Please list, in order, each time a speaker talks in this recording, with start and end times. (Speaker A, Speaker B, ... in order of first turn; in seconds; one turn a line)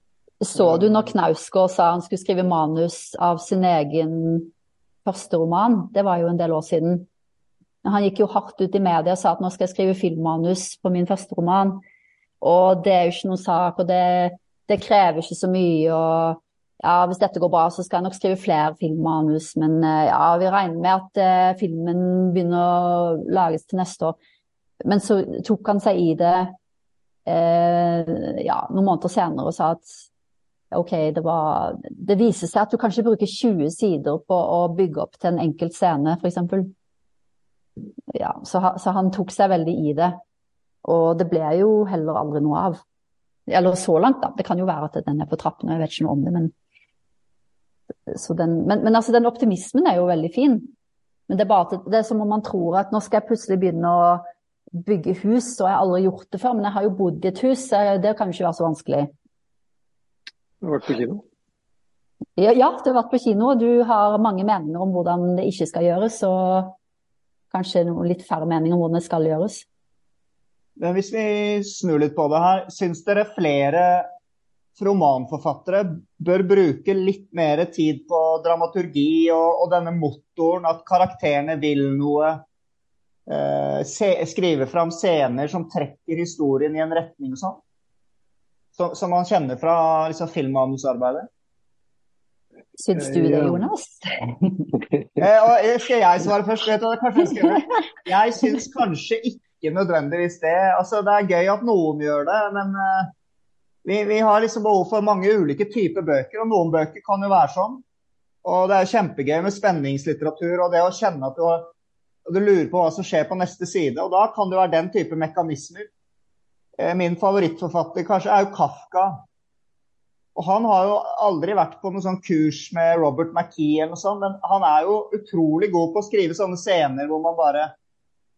Speaker A: 0.4-4.5
Speaker B: 0.6-1.1
Speaker A: 5.0-7.1
Speaker A: 7.8-11.8
Speaker A: 12.4-24.2
Speaker A: 24.9-26.6
Speaker A: 27.2-30.1
Speaker A: 30.7-36.7
Speaker A: 38.1-40.2
Speaker A: 40.8-42.8
Speaker A: 43.5-46.5
Speaker A: 48.1-50.7
Speaker A: 51.3-54.2
Speaker A: 54.7-59.1
Speaker B: 60.6-61.2
Speaker A: 62.4-66.8
Speaker A: 67.5-69.6
Speaker C: 70.8-74.1
Speaker C: 74.8-82.4
Speaker C: 83.3-87.6
Speaker C: 88.8-91.3
Speaker A: 92.8-94.7
Speaker B: 92.9-93.7
Speaker C: 95.2-103.1
Speaker C: 103.8-107.8
Speaker C: 108.4-111.7
Speaker C: 112.3-115.9
Speaker C: 116.8-119.2
Speaker C: 120.4-127.7